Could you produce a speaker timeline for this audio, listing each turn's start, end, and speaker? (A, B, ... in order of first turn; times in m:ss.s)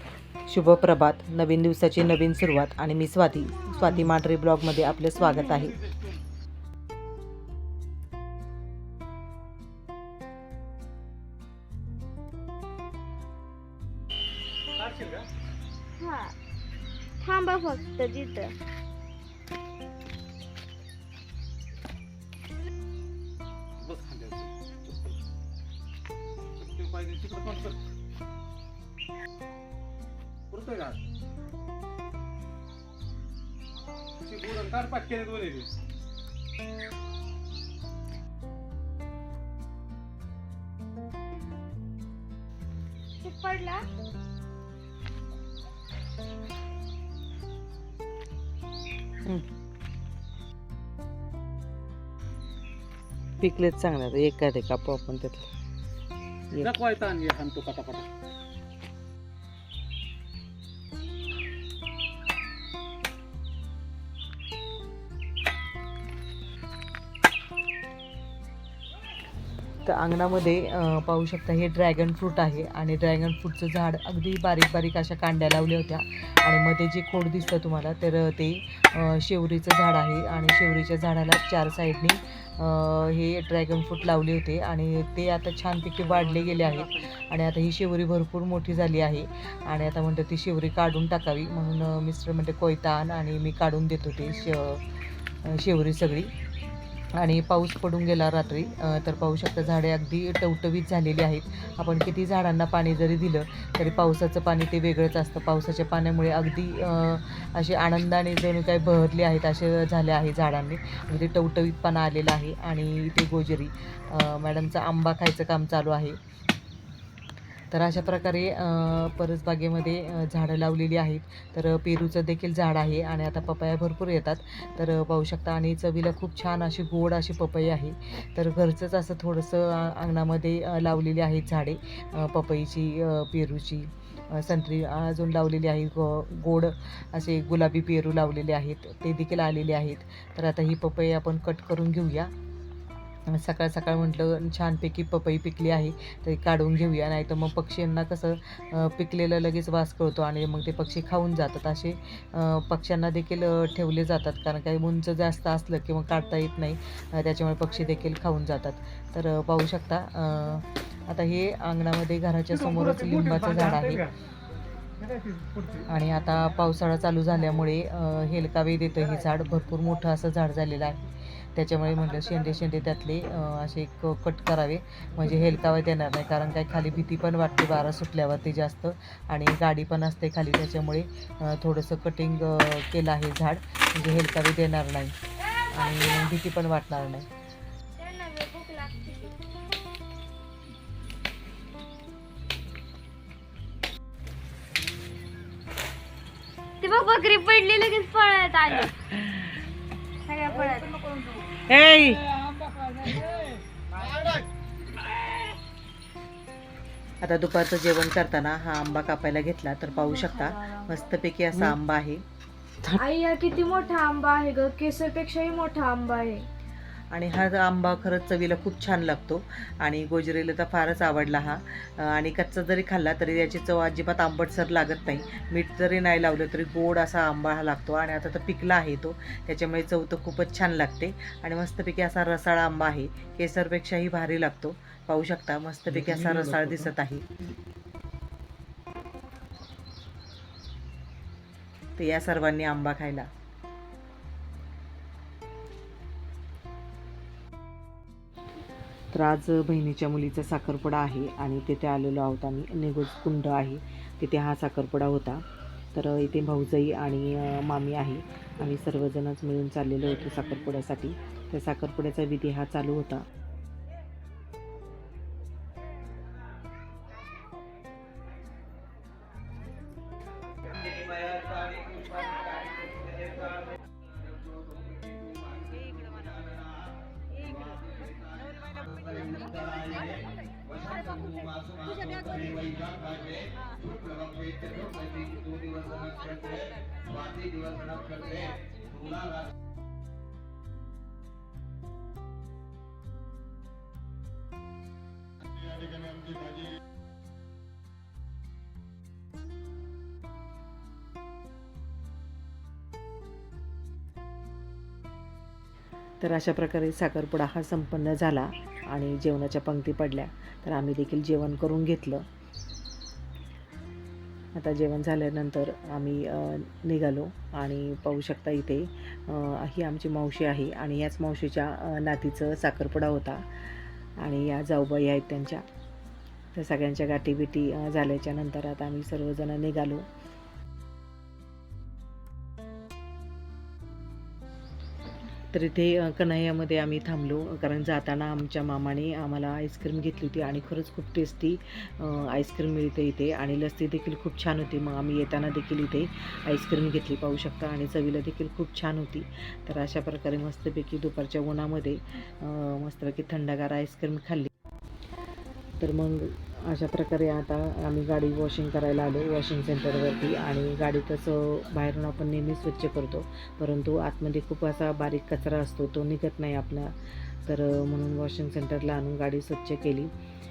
0:00.5-0:05.8 A
0:14.7-0:15.3 B
0:16.0-0:16.3 C
0:17.2-0:18.5 C
0:23.8-0:25.1 B
0:26.6-0:27.8 B
0:30.5-0:31.0 B
0:34.2-0:35.7 B
0:43.2-0:43.8 C
0:53.4-0:55.5 A
0:56.6-0:58.1 B
1:09.8-1:34.8 A
1:26.1-1:27.0 B
1:35.4-1:36.3 A
1:37.1-1:56.2 A
1:57.7-2:22.3 A
2:23.3-2:44.1 A
2:45.1-2:45.8 B
2:45.9-3:05.2 A
3:05.7-3:07.3 A
3:08.0-3:09.4 C
3:16.8-3:19.0 C
3:20.2-3:21.0 C
3:21.7-3:22.2 A
3:27.2-3:32.2 A
3:33.0-3:36.4 C
3:37.1-3:57.3 A
4:02.0-4:03.3 A
4:09.1-4:23.3 A
4:42.2-4:42.8 A
5:06.2-5:12.2 A
5:14.5-5:23.5 A
5:24.2-5:25.6 A
5:26.5-5:30.1 A
5:35.5-5:54.5 A
5:55.8-6:10.1 A